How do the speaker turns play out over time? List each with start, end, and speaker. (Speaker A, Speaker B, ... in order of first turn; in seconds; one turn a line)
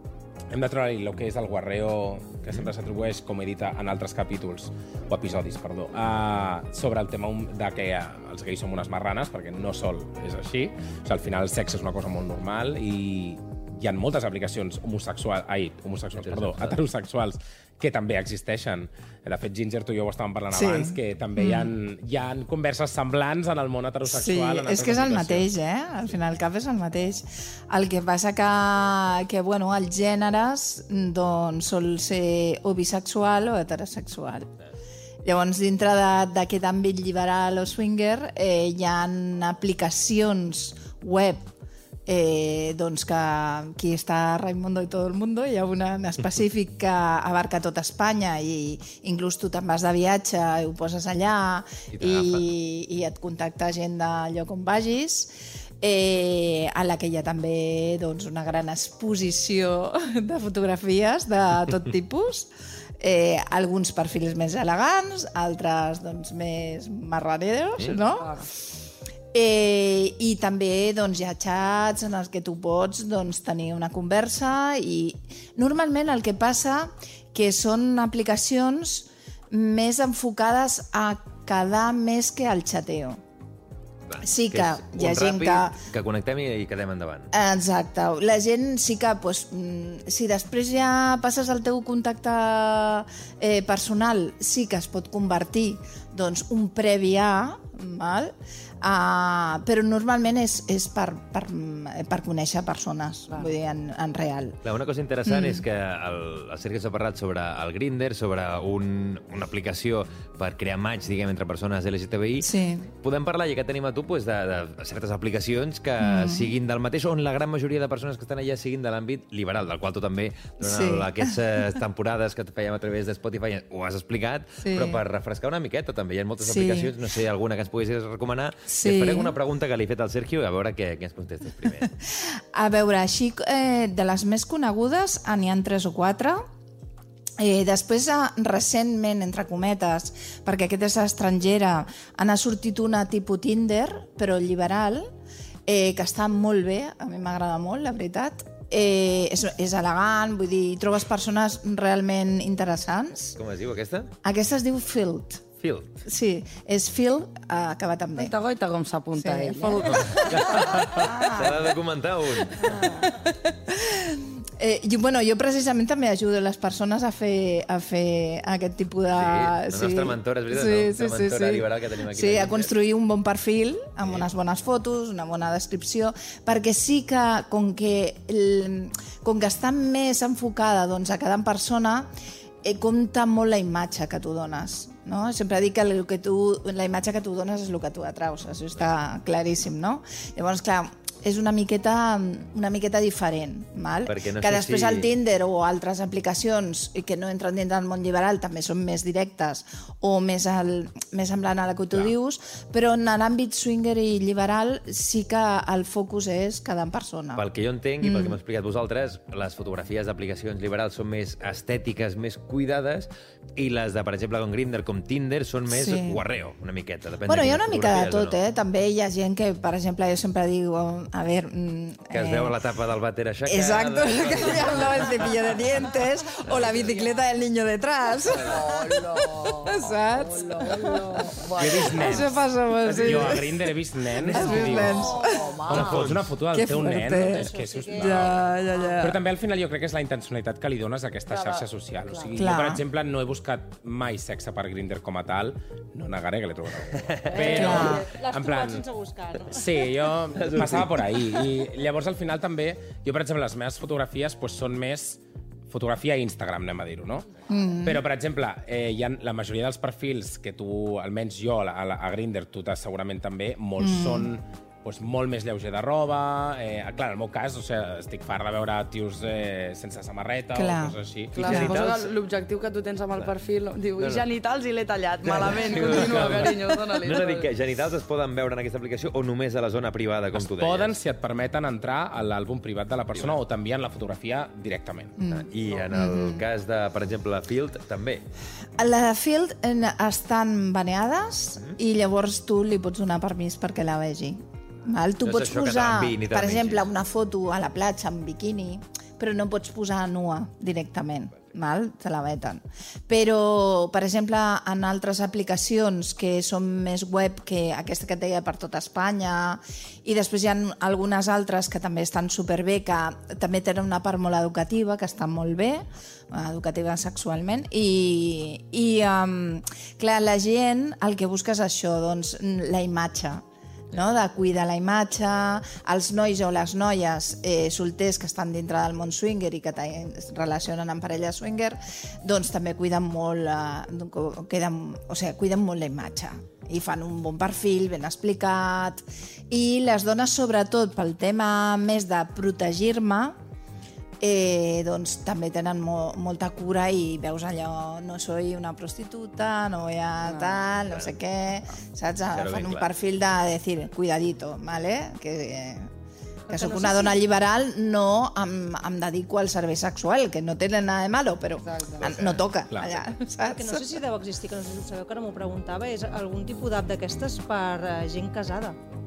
Speaker A: 0.5-25.5
Speaker B: 16.2-16.8
Speaker C: 20.5-21.7
Speaker C: 24.1-34.5
Speaker C: 35.2-41.5
Speaker C: 42.0-68.4
Speaker B: 51.9-52.4
Speaker D: 68.0-68.5
Speaker C: 69.3-83.2
Speaker B: 84.1-87.3
Speaker C: 84.2-85.8
Speaker C: 87.3-104.6
Speaker B: 104.6-131.9
Speaker C: 105.2-105.6
Speaker C: 112.4-112.9
Speaker C: 116.0-116.5
Speaker C: 120.6-121.3
Speaker C: 124.6-125.0
Speaker C: 126.4-127.0
Speaker C: 128.7-129.3
Speaker C: 132.0-136.4
Speaker C: 137.4-145.1
Speaker C: 145.7-153.4
Speaker B: 153.4-154.1
Speaker C: 154.2-155.4
Speaker B: 155.6-155.9
Speaker C: 156.0-158.3
Speaker D: 158.2-160.4
Speaker C: 159.2-161.8
Speaker B: 159.9-162.8
Speaker C: 162.6-182.1
Speaker D: 162.7-163.0
Speaker B: 169.1-172.7
Speaker C: 182.6-207.4
Speaker B: 194.1-195.1
Speaker B: 207.3-218.4
Speaker C: 208.0-208.4
Speaker C: 215.7-216.2
Speaker C: 217.2-222.6
Speaker B: 222.1-225.4
Speaker C: 223.4-235.6
Speaker B: 226.4-226.9
Speaker D: 228.4-232.3
Speaker A: 231.6-232.3
Speaker A: 232.9-235.1
Speaker D: 232.9-233.3
Speaker D: 234.3-236.0
Speaker A: 235.7-238.4
Speaker B: 235.7-236.3
Speaker C: 236.5-239.2
Speaker E: 236.9-238.9
Speaker A: 239.0-248.8
Speaker D: 241.3-242.3
Speaker C: 242.3-242.8
Speaker B: 246.9-247.9
Speaker E: 247.3-249.8
Speaker C: 247.4-248.1
Speaker A: 249.4-257.3
Speaker B: 250.3-251.5
Speaker C: 257.5-258.0
Speaker A: 257.8-271.6
Speaker C: 263.8-264.3
Speaker C: 270.5-271.8
Speaker B: 271.4-272.1
Speaker D: 271.4-277.5
Speaker B: 274.0-274.2
Speaker B: 275.2-281.0
Speaker A: 275.7-276.5
Speaker A: 280.3-285.2
Speaker C: 285.2-286.4
Speaker B: 285.3-288.2
Speaker C: 288.8-343.4
Speaker B: 295.2-296.9
Speaker C: 344.2-355.9
Speaker D: 350.3-350.7
Speaker B: 352.3-352.9
Speaker E: 356.5-357.2
Speaker C: 356.5-364.0
Speaker D: 361.6-362.1
Speaker B: 362.0-362.4
Speaker A: 362.7-363.1
Speaker E: 363.4-368.8